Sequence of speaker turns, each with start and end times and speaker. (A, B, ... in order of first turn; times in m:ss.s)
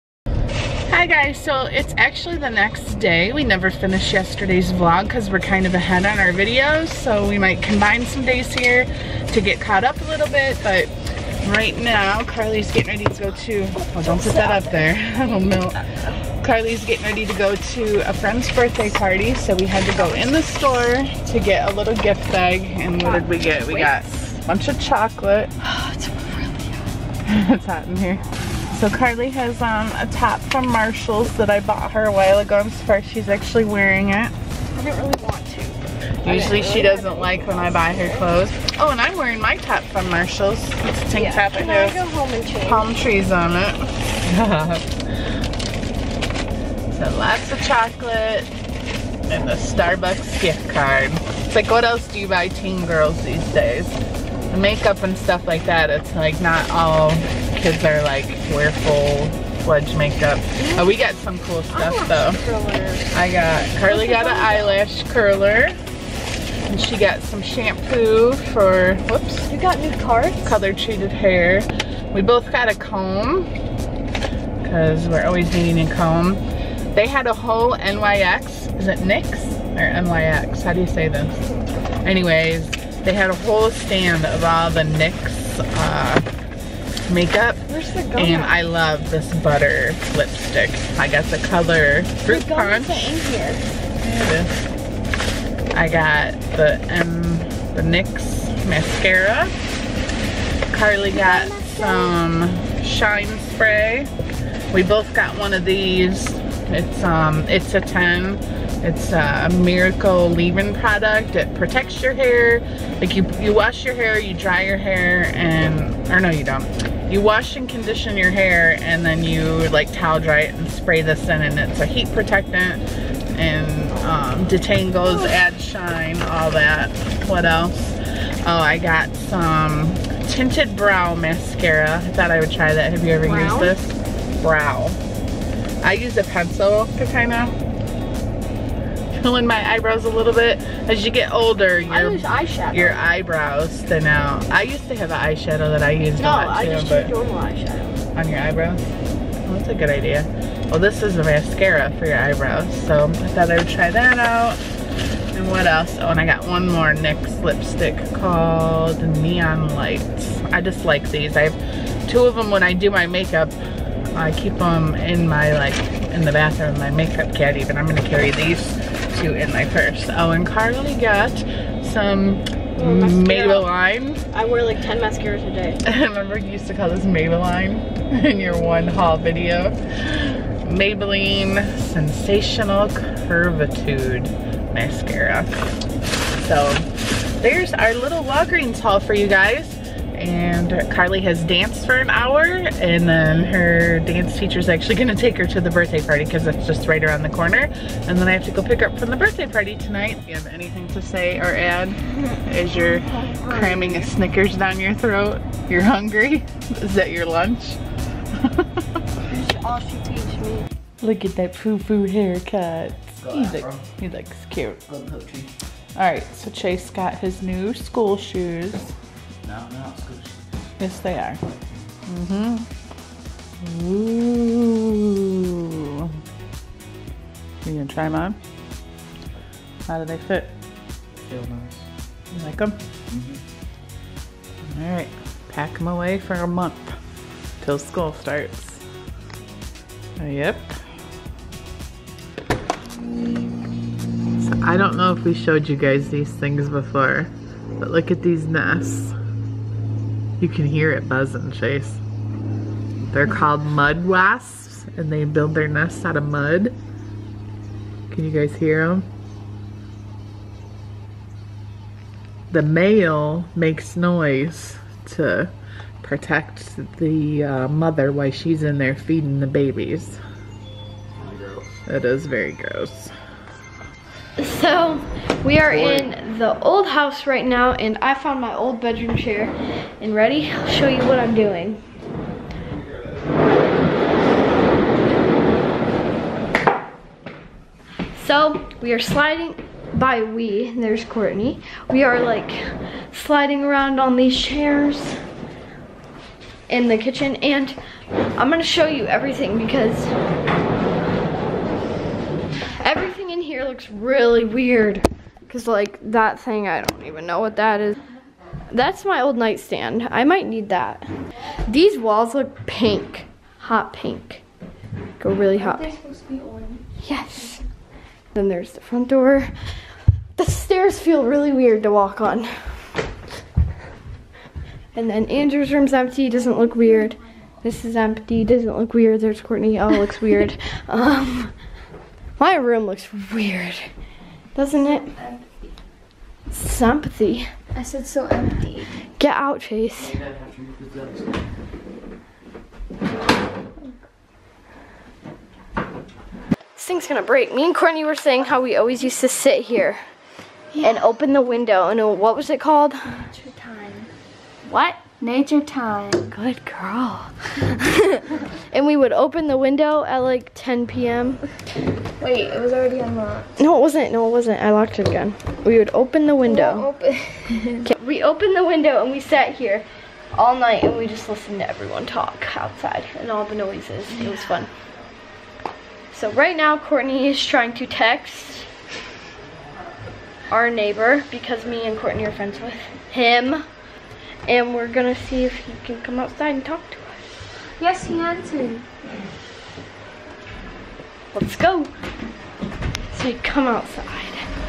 0:00.9-0:15.8 A
0:13.9-0:14.7 B
0:16.4-0:25.5 A
0:23.0-0:24.3 B
0:25.6-0:26.8 B
0:27.2-0:34.3 A
0:34.7-0:38.3 B
0:36.2-0:42.0 A
0:41.1-0:42.9 B
0:42.6-0:44.9 A
0:46.9-0:48.5 A
0:49.3-0:54.0 A
0:54.5-1:02.4 A
1:00.6-1:01.0 B
1:01.7-1:03.1 B
1:03.1-1:05.8 A
1:03.8-1:04.8 B
1:06.7-1:09.5 A
1:09.5-1:10.5 B
1:10.4-1:13.5 A
1:14.6-1:16.4 A
1:16.9-1:21.4 A
1:22.0-1:26.3 A
1:27.1-1:27.6 A
1:27.7-1:28.6 B
1:28.1-1:33.1 A
1:32.2-1:33.7 B
1:34.0-1:34.7 A
1:35.7-1:39.5 A
1:40.7-1:44.1 A
1:41.1-1:42.1 B
1:44.7-2:02.8 A
2:03.3-2:15.0 A
2:05.0-2:05.4 B
2:13.2-2:13.7 B
2:15.8-2:17.6 A
2:19.1-2:27.1 A
2:21.9-2:23.0 B
2:26.2-2:28.0 B
2:28.1-2:28.9 A
2:29.4-2:34.6 A
2:35.3-2:43.6 A
2:44.1-2:54.2 A
2:52.8-2:53.7 B
2:54.3-2:55.8 B
2:55.8-3:05.6 A
3:06.4-3:27.8 A
3:22.8-3:24.1 B
3:28.4-3:28.8 A
3:29.3-3:30.6 B
3:31.0-3:34.9 A
3:33.2-3:33.8 C
3:34.9-3:35.5 C
3:36.0-3:38.9 A
3:39.4-3:40.4 C
3:40.8-3:41.4 A
3:42.1-3:42.7 A
3:43.6-3:46.1 A
3:47.6-3:48.4 A
3:49.9-3:50.5 A
3:51.2-3:51.8 C
3:52.3-3:52.8 A
3:53.1-3:53.4 C
3:54.7-3:57.0 A
3:57.6-3:58.8 A
4:00.2-4:00.8 A
4:04.4-4:09.2 A
4:10.4-4:12.0 A
4:13.0-4:16.8 A
4:18.1-4:19.1 A
4:22.5-4:30.2 A
4:31.2-4:31.7 C
4:31.9-4:33.1 A
4:34.4-4:41.8 B
4:35.7-4:36.0 C
4:48.1-4:55.2 B
4:56.7-4:57.8 B
4:58.3-5:00.1 B
5:02.8-5:08.0 B
5:08.7-5:11.0 B
5:11.6-5:14.4 B
5:15.2-5:15.9 B
5:15.5-5:16.8 D
5:17.0-5:17.6 B
5:18.3-5:19.5 B
5:20.4-5:22.8 B
5:24.9-5:31.5 B
5:32.4-5:33.9 B
5:34.5-5:35.2 B
5:36.5-5:37.5 B
5:37.7-5:38.9 D
5:39.2-5:40.2 B
5:40.2-5:41.3 C
5:46.8-5:50.0 B
5:50.8-5:53.2 B
5:53.2-5:54.1 D
5:54.6-5:55.1 B
5:55.2-5:56.3 D
5:56.2-6:01.4 B
6:02.2-6:03.5 D
6:03.6-6:06.9 B
6:06.4-6:07.8 D
6:07.8-6:14.7 B
6:16.1-6:18.7 B
6:20.5-6:23.6 B
6:24.4-6:27.3 B
6:27.8-6:28.8 D
6:31.3-6:31.9 B
6:33.1-6:34.5 B